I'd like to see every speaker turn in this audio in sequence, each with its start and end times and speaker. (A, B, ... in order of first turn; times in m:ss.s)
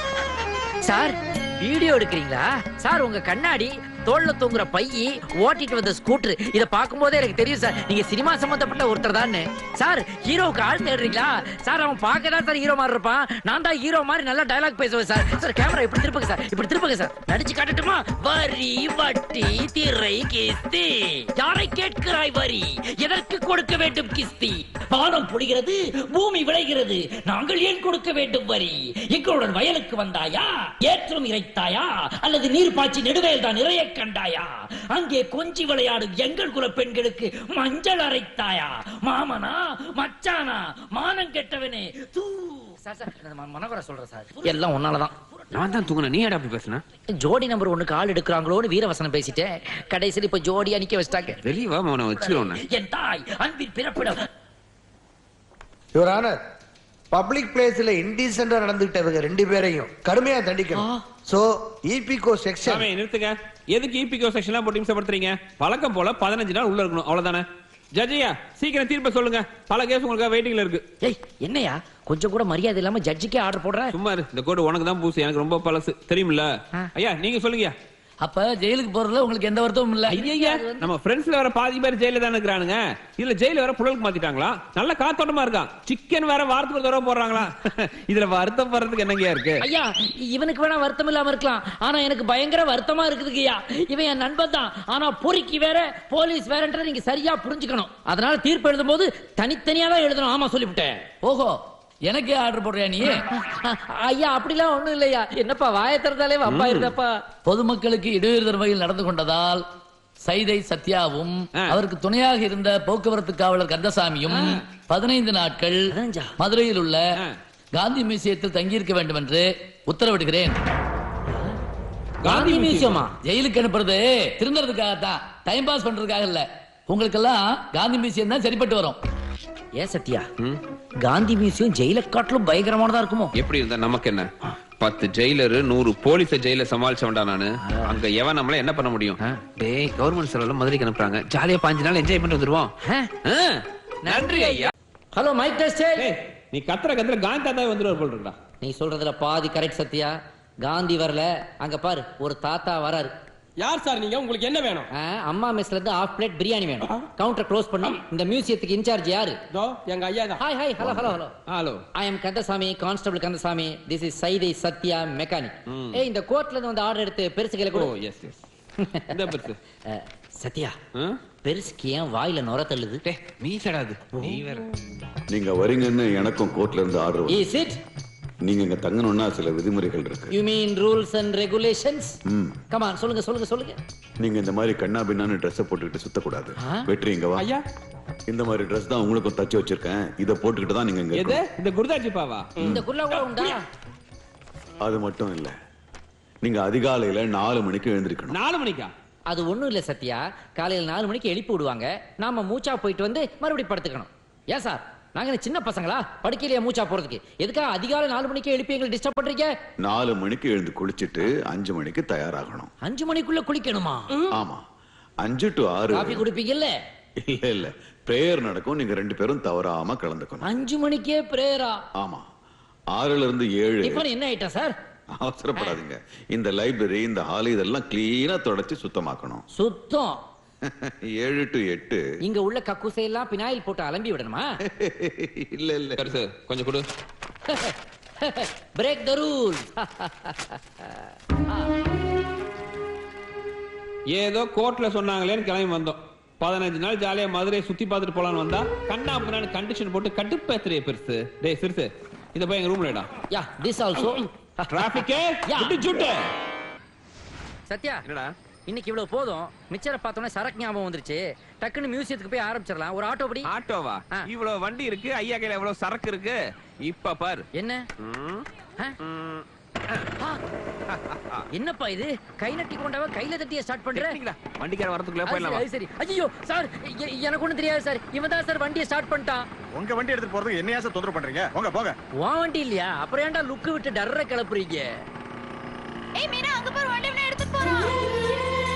0:00.8-0:45.2 A
0:45.5-0:46.8 B
0:47.2-0:51.4 A
0:51.4-0:52.6 B
0:52.2-0:54.3 A
0:56.0-0:56.4 C
0:57.1-1:02.9 C
1:00.8-1:01.0 A
1:02.7-1:10.8 B
1:11.0-1:13.9 A
1:13.9-1:17.8 B
1:18.2-1:20.2 D
1:20.1-1:20.8 A
1:20.2-1:29.6 B
1:29.6-1:41.1 A
1:41.2-1:43.2 D
1:43.1-1:47.1 A
1:46.5-1:46.9 B
1:47.5-1:49.6 D
1:50.2-1:57.0 D
1:54.3-1:54.6 A
1:55.9-1:56.3 A
1:57.8-2:00.6 D
2:01.3-2:01.6 A
2:02.2-2:03.0 B
2:02.2-2:03.1 A
2:03.2-2:09.0 D
2:09.8-2:10.3 A
2:11.0-2:13.3 A
2:13.4-2:14.3 B
2:14.8-2:22.7 B
2:22.8-2:23.1 A
2:23.3-2:24.7 B
2:24.0-2:26.1 A
2:26.0-2:28.4 B
2:28.6-2:33.1 A
2:33.6-2:34.8 E
2:34.9-2:39.4 A
2:39.5-2:40.4 E
2:40.4-2:41.3 A
2:40.8-2:41.2 F
2:41.5-2:41.8 B
2:42.0-2:47.9 A
2:45.7-2:46.0 B
2:47.7-2:48.4 B
2:48.8-2:49.2 A
2:49.1-2:49.6 B
2:49.9-2:50.8 A
2:51.4-2:53.0 A
2:53.0-2:54.6 B
2:54.1-2:54.5 A
2:55.3-2:57.4 F
2:57.3-2:57.8 A
2:58.4-3:00.3 F
3:00.3-3:02.2 A
3:02.3-3:02.6 F
3:02.7-3:03.8 A
3:04.2-3:07.5 F
3:08.3-3:11.4 F
3:11.2-3:12.5 B
3:12.6-3:12.9 F
3:12.6-3:13.6 A
3:14.8-3:15.5 F
3:16.4-3:18.4 F
3:18.3-3:18.9 B
3:19.3-3:29.5 A
3:29.8-3:32.7 F
3:32.8-3:34.1 A
3:34.3-3:34.6 F
3:35.2-3:36.2 F
3:35.9-3:36.7 A
3:37.2-3:40.5 F
3:40.4-3:41.8 A
3:42.0-3:42.2 F
3:43.0-3:44.1 F
3:43.8-3:44.7 A
3:45.2-3:49.4 F
3:49.6-3:50.2 A
3:50.6-3:52.0 F
3:52.2-3:54.5 A
3:54.7-3:56.1 F
3:56.0-3:56.9 B
3:57.5-4:01.7 A
4:04.1-4:13.1 B
4:13.3-4:15.8 A
4:14.7-4:16.2 B
4:17.7-4:18.0 A
4:18.0-4:18.3 B
4:18.7-4:23.5 A
4:23.5-4:27.4 B
4:27.6-4:27.9 A
4:28.0-4:28.5 B
4:29.0-4:30.1 B
4:30.9-4:31.4 B
4:31.5-4:34.2 A
4:33.9-4:35.6 B
4:35.3-4:39.5 A
4:39.8-4:42.0 G
4:42.2-4:44.9 A
4:46.2-4:48.1 H